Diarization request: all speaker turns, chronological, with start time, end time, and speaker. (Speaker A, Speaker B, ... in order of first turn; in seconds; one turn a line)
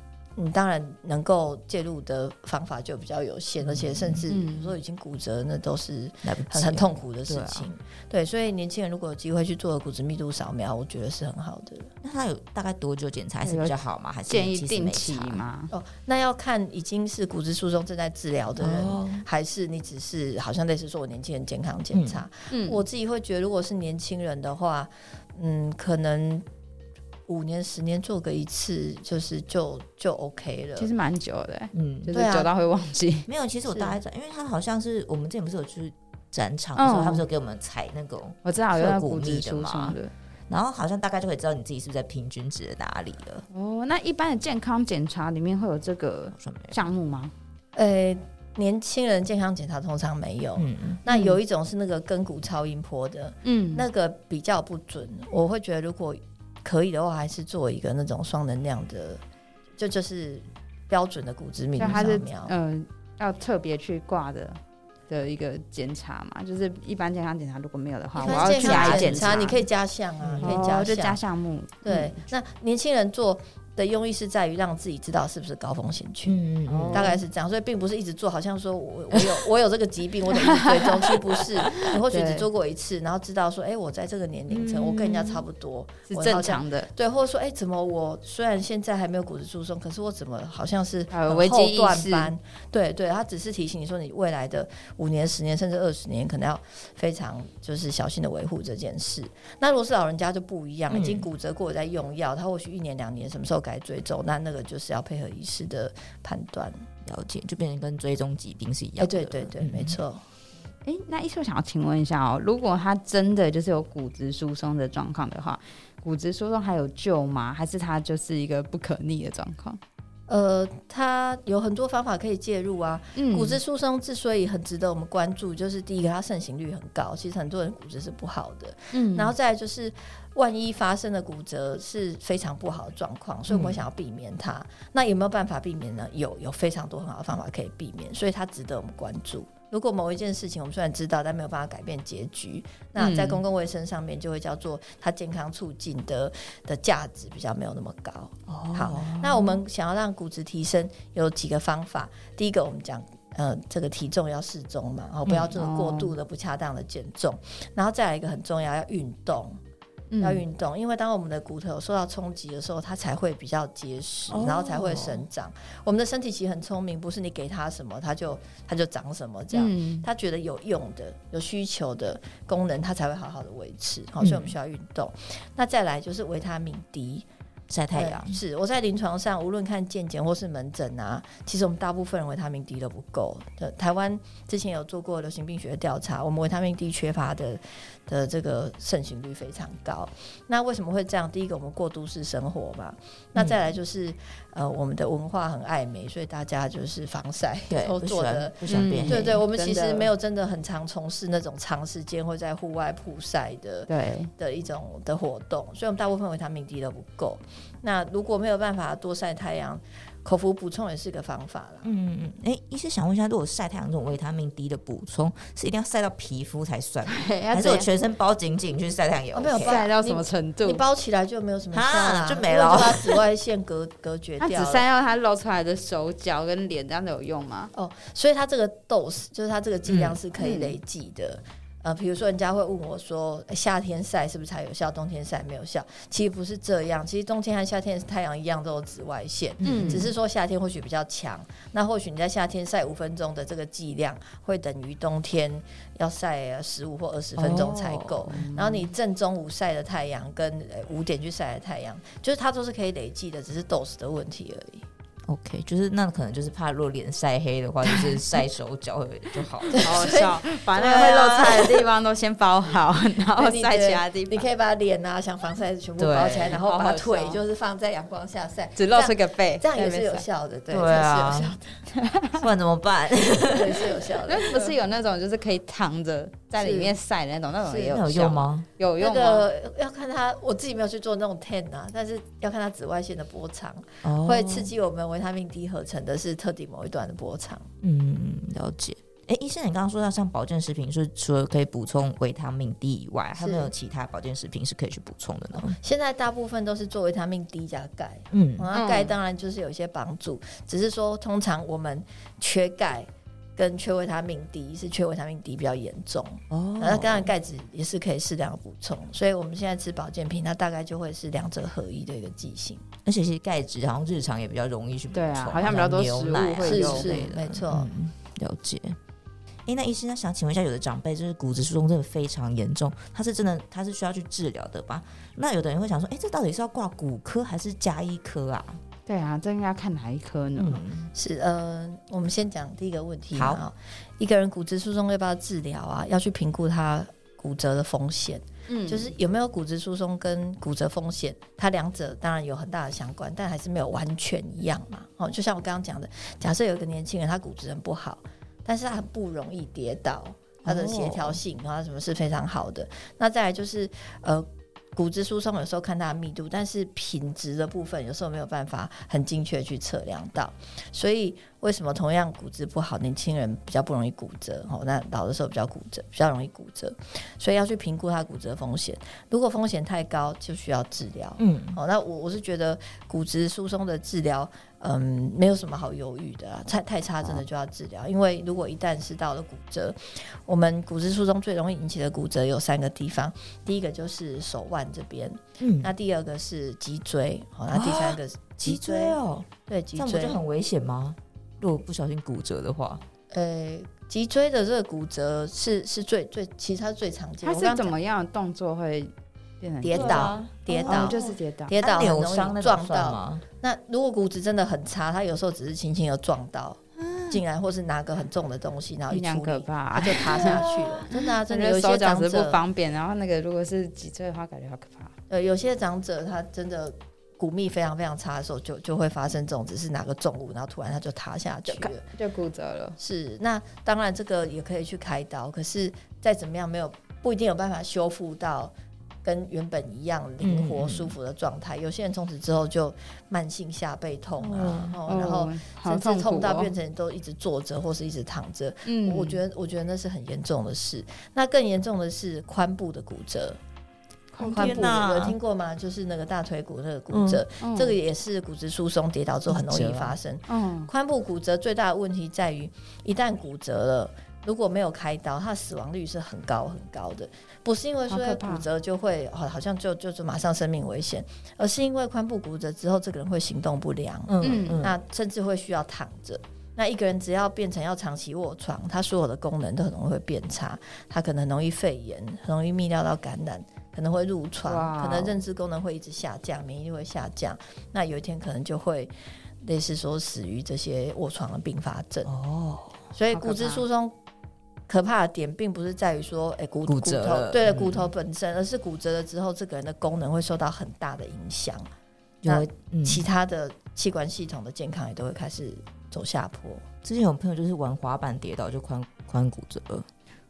Speaker A: 0.3-11.9
Speaker B: 3.6-4.3
Speaker C: 4.3-4.8
Speaker B: 6.2-7.7
Speaker B: 12.0-15.4
Speaker C: 13.4-13.8
Speaker C: 14.3-15.7
Speaker A: 15.7-26.4
Speaker B: 18.6-19.2
Speaker B: 21.9-22.2
Speaker C: 22.5-22.8
Speaker A: 27.3-30.9
Speaker C: 30.8-33.3
Speaker B: 31.7-32.1
Speaker A: 32.1-32.5
Speaker B: 33.3-40.0
Speaker C: 36.8-37.2
Speaker C: 38.4-40.1
Speaker B: 40.5-43.4
Speaker C: 43.5-47.3
Speaker B: 46.3-46.8
Speaker A: 47.7-59.2
Speaker B: 50.6-51.0
Speaker C: 51.1-51.4
Speaker C: 53.4-53.9
Speaker A: 59.8-62.5
Speaker C: 61.8-69.6
Speaker A: 68.1-71.2
Speaker B: 68.2-69.2
Speaker B: 70.2-70.7
Speaker C: 70.4-72.2
Speaker A: 71.8-76.4
Speaker B: 76.2-77.1
Speaker C: 76.7-77.2
Speaker A: 76.9-106.7
Speaker C: 80.3-81.1
Speaker C: 81.7-82.5
Speaker B: 84.5-85.4
Speaker C: 86.1-86.9
Speaker C: 91.1-92.3
Speaker B: 100.9-101.3
Speaker B: 107.0-110.0
Speaker A: 109.0-110.2
Speaker C: 110.8-119.8
Speaker A: 120.3-159.6
Speaker C: 123.2-123.6
Speaker C: 128.9-129.3
Speaker B: 133.5-133.8
Speaker C: 143.0-143.4
Speaker B: 148.5-149.5
Speaker B: 155.2-155.5
Speaker C: 155.5-156.1
Speaker C: 160.1-160.4
Speaker A: 160.2-177.2
Speaker B: 164.3-165.2
Speaker C: 169.5-170.1
Speaker B: 174.2-174.5
Speaker B: 177.7-178.4
Speaker A: 177.9-211.9
Speaker B: 193.3-193.6
Speaker B: 197.7-199.4
Speaker C: 198.7-200.1
Speaker C: 203.9-204.3
Speaker B: 211.8-219.8
Speaker C: 217.1-217.9
Speaker A: 219.3-224.8
Speaker C: 219.6-220.8
Speaker B: 221.7-223.2
Speaker C: 224.4-227.7
Speaker A: 227.7-254.8
Speaker B: 229.8-230.2
Speaker C: 230.4-230.8
Speaker B: 239.6-240.1
Speaker C: 239.6-240.1
Speaker B: 247.4-248.2
Speaker C: 248.3-248.9
Speaker B: 255.3-260.1
Speaker A: 259.7-261.8
Speaker C: 259.8-264.5
Speaker B: 261.0-261.5
Speaker A: 263.3-271.8
Speaker B: 266.0-266.6
Speaker C: 266.5-267.4
Speaker C: 268.8-270.2
Speaker B: 270.7-271.6
Speaker C: 271.9-272.4
Speaker B: 272.4-273.9
Speaker A: 273.4-274.7
Speaker C: 274.3-279.4
Speaker A: 276.6-276.9
Speaker B: 277.8-278.7
Speaker A: 279.0-287.7
Speaker B: 284.0-284.7
Speaker B: 287.8-295.8
Speaker A: 293.4-293.7
Speaker A: 295.6-312.8
Speaker B: 298.3-298.7
Speaker C: 298.7-299.1
Speaker B: 306.5-307.3
Speaker B: 313.0-319.0
Speaker C: 315.1-317.2
Speaker A: 316.6-317.9
Speaker B: 319.7-328.8
Speaker C: 329.1-330.8
Speaker B: 330.6-331.1
Speaker A: 331.1-390.4
Speaker B: 333.3-333.6
Speaker C: 338.7-339.1
Speaker B: 350.6-351.4
Speaker B: 371.4-371.8
Speaker B: 385.6-385.9
Speaker B: 387.7-393.0
Speaker A: 393.3-398.0
Speaker C: 397.4-400.3
Speaker A: 399.8-412.6
Speaker B: 399.9-403.4
Speaker C: 400.9-401.8
Speaker B: 407.0-407.4
Speaker C: 409.1-415.1
Speaker B: 410.2-411.2
Speaker A: 415.3-422.0
Speaker C: 421.7-422.9
Speaker A: 423.0-428.7
Speaker A: 429.2-443.6
Speaker B: 430.4-431.1
Speaker B: 434.4-435.0
Speaker C: 435.0-436.7
Speaker C: 438.9-439.4
Speaker C: 444.3-444.8
Speaker B: 444.4-445.4
Speaker A: 444.4-479.1
Speaker B: 447.1-447.4
Speaker C: 447.6-448.0
Speaker B: 449.5-450.1
Speaker C: 450.5-450.9
Speaker C: 458.1-458.6
Speaker B: 464.3-465.0
Speaker C: 464.4-464.9
Speaker C: 474.6-475.4
Speaker A: 479.6-482.3
Speaker B: 482.2-483.1
Speaker A: 483.1-484.1
Speaker C: 483.3-483.8
Speaker A: 484.9-491.8
Speaker B: 486.9-488.1
Speaker B: 492.4-493.2
Speaker A: 492.4-496.8
Speaker B: 497.0-500.1